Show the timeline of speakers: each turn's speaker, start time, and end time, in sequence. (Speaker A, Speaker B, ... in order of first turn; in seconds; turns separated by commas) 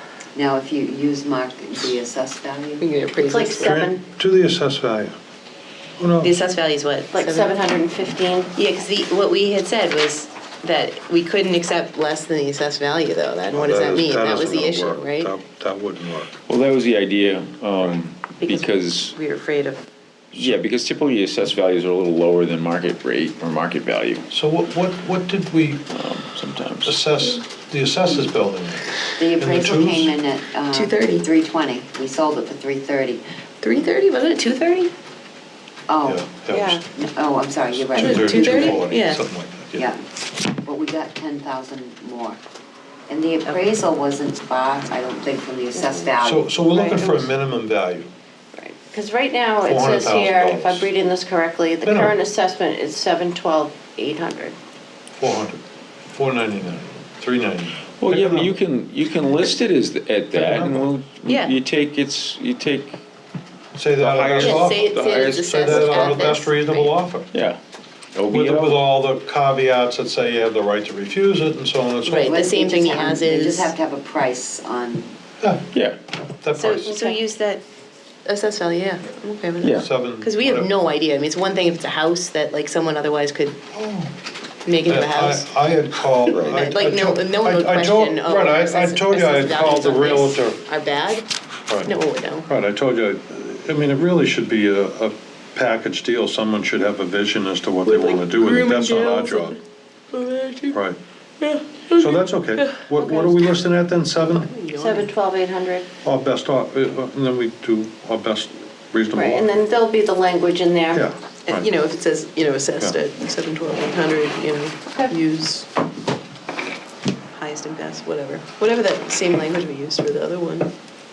Speaker A: 0.3-2.8, Speaker B: 2.8-3.9, Speaker C: 3.2-4.0, Speaker D: 3.6-5.1, Speaker D: 6.0-6.3, Speaker B: 6.2-7.5, Speaker C: 7.1-8.5, Speaker B: 8.5-15.3, Speaker D: 13.5-16.3, Speaker E: 16.4-19.2, Speaker B: 18.4-19.8, Speaker D: 20.3-20.6, Speaker E: 20.3-24.2, Speaker D: 24.3-25.9, Speaker E: 25.9-27.0, Speaker D: 26.8-30.1, Speaker A: 29.2-33.2, Speaker B: 30.7-31.2, Speaker B: 33.6-34.9, Speaker A: 35.9-36.3, Speaker D: 36.1-36.8, Speaker C: 36.5-36.8, Speaker A: 36.9-38.9, Speaker D: 37.7-39.8, Speaker B: 38.0-39.2, Speaker A: 39.7-40.0, Speaker A: 40.6-42.4, Speaker A: 43.1-46.5, Speaker D: 46.2-48.1, Speaker C: 46.7-47.3, Speaker C: 48.5-54.6, Speaker D: 49.6-50.9, Speaker D: 51.8-52.1, Speaker D: 55.2-58.6, Speaker E: 57.9-63.0, Speaker D: 60.3-60.9, Speaker B: 61.2-61.5, Speaker D: 63.7-64.9, Speaker E: 64.0-66.2, Speaker B: 64.4-67.0, Speaker D: 65.5-67.3, Speaker E: 67.3-67.6, Speaker E: 68.1-68.9, Speaker D: 68.3-72.3, Speaker B: 72.0-73.7, Speaker A: 72.1-75.1, Speaker D: 75.4-75.7, Speaker E: 75.7-76.0, Speaker D: 76.4-77.2, Speaker B: 76.5-77.6, Speaker B: 78.2-83.6, Speaker E: 79.6-79.9, Speaker D: 79.8-80.7, Speaker D: 83.7-84.1, Speaker B: 84.6-85.5, Speaker D: 84.8-90.6, Speaker B: 86.1-91.2, Speaker E: 86.3-86.7, Speaker B: 91.8-92.5, Speaker D: 92.5-99.6, Speaker B: 97.9-99.5, Speaker B: 100.1-100.7, Speaker D: 100.7-101.0, Speaker B: 101.4-105.1, Speaker D: 101.9-104.5, Speaker C: 104.8-105.9, Speaker D: 106.0-109.5, Speaker C: 109.1-111.1, Speaker D: 110.9-111.7, Speaker B: 111.5-115.7, Speaker B: 117.3-120.7